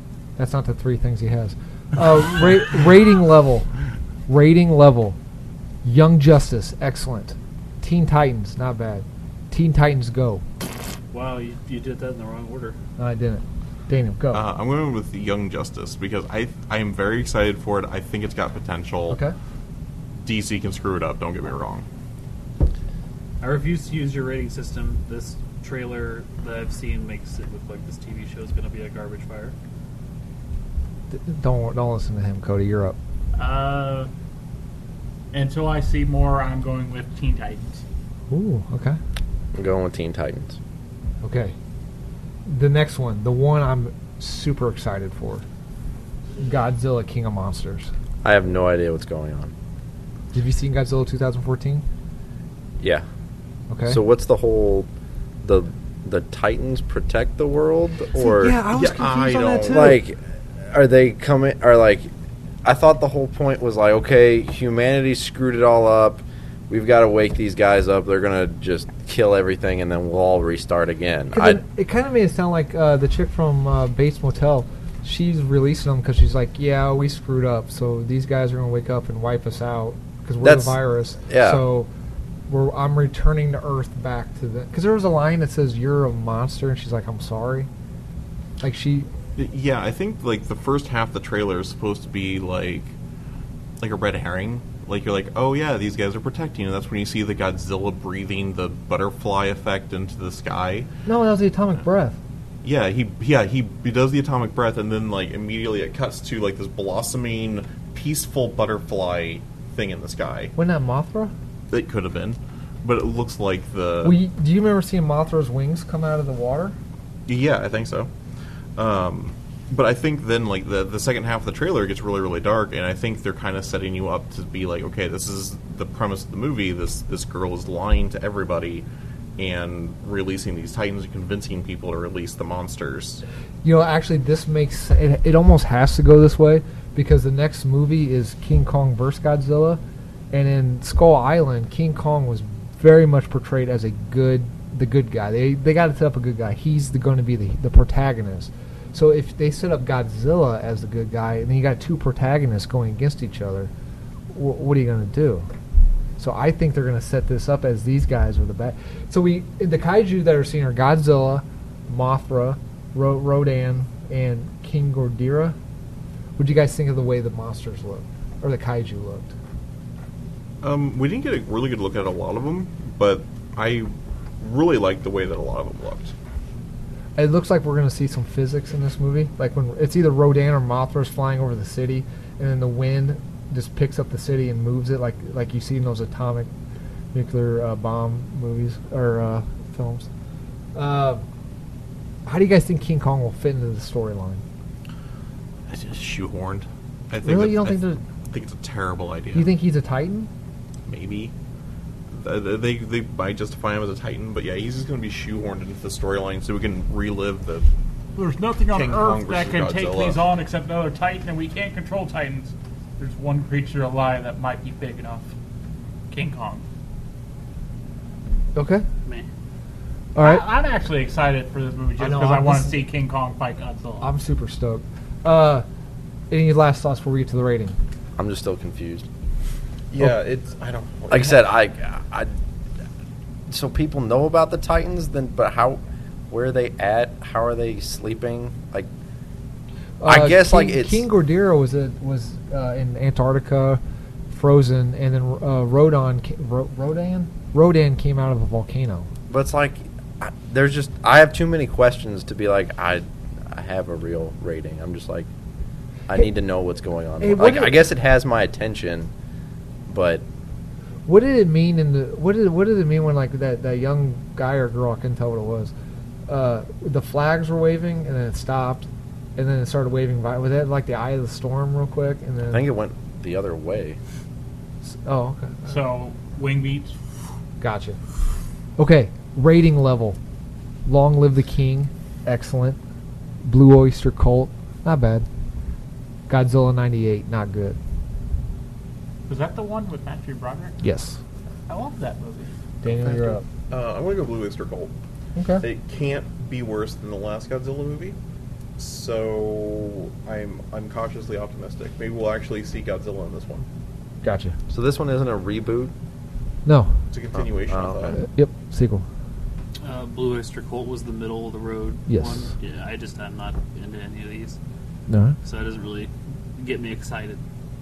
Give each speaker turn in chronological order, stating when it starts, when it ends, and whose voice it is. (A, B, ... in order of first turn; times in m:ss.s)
0:00.4-0:03.7 A
0:04.3-0:05.2 A
0:05.8-0:10.4 A
0:11.1-0:12.8 B
0:13.0-0:14.4 A
0:14.3-0:19.2 C
0:19.1-0:19.4 A
0:20.2-0:21.9 C
0:23.4-0:29.6 B
0:31.1-0:33.0 A
0:33.4-0:34.1 D
0:35.3-0:37.8 D
0:38.3-0:39.0 A
0:39.5-0:40.6 E
0:41.2-0:41.6 A
0:42.5-0:45.4 A
0:46.4-0:47.9 A
0:48.2-0:49.5 E
0:50.3-0:51.8 A
0:52.8-0:53.0 E
0:53.7-0:54.0 A
0:53.9-0:54.9 E
0:55.4-0:58.6 E
0:58.2-1:00.0 A
0:58.7-0:59.9 C
0:59.7-1:02.1 E
1:02.6-1:11.6 E
1:11.3-1:21.9 A
1:20.4-1:21.6 E
1:22.5-1:27.7 A
1:28.6-1:29.1 A
1:29.4-1:32.9 C
1:33.8-1:40.9 C
1:41.1-1:42.2 A
1:42.6-1:50.5 C
1:50.6-1:51.3 A
1:51.7-1:54.2 C
1:54.0-1:56.8 A
1:57.3-1:58.1 C
1:58.8-2:08.9 C
2:09.4-2:13.2 C
2:13.6-2:19.8 A
2:20.3-2:33.7 A
2:34.3-2:35.5 A
2:36.2-2:45.6 A
2:46.4-2:49.3 A
2:50.6-2:56.1 C
2:57.2-3:06.5 A
3:07.1-3:10.1 A
3:10.8-3:11.2 A
3:12.3-3:14.4 A
3:15.7-3:19.5 C
3:17.2-3:18.0 A
3:19.3-3:20.3 A
3:20.9-3:21.3 C
3:22.1-3:27.7 C
3:28.2-3:35.3 D
3:28.7-3:30.3 C
3:36.1-3:36.6 D
3:38.6-3:38.8 A
3:40.2-3:40.4 A
3:40.2-3:44.1 D
3:42.0-3:42.8 A
3:44.0-3:45.7 A
3:46.3-3:47.8 A
3:48.2-3:49.1 E
3:49.9-3:51.6 C
3:51.1-3:52.3 E
3:53.5-3:55.8 E
3:56.3-3:58.9 E
4:00.0-4:09.1 A
4:00.0-4:01.0 E
4:09.3-4:15.3 E
4:16.1-4:19.1 E
4:17.2-4:17.8 A
4:19.9-4:20.2 E
4:21.1-4:25.7 A
4:26.3-4:32.7 A
4:32.5-4:34.0 E
4:34.9-4:35.8 A
4:35.6-4:37.0 D
4:37.6-4:38.0 A
4:38.8-4:40.2 A
4:40.9-4:42.8 A
4:43.4-4:45.3 A
4:46.3-4:47.8 A
4:49.3-4:50.8 D
4:50.8-4:51.2 A
4:51.7-4:52.6 D
4:52.8-4:53.4 A
4:53.1-4:53.4 D
4:53.7-4:54.9 C
4:55.4-4:55.6 A
4:55.6-4:58.2 C
4:58.8-5:03.7 C
5:04.2-5:04.6 A
5:04.7-5:05.9 E
5:06.7-5:06.9 A
5:07.1-5:08.2 C
5:07.4-5:08.2 E
5:08.2-5:09.0 A
5:09.8-5:14.6 B
5:12.1-5:12.5 A
5:15.1-5:15.4 A
5:15.4-5:17.4 B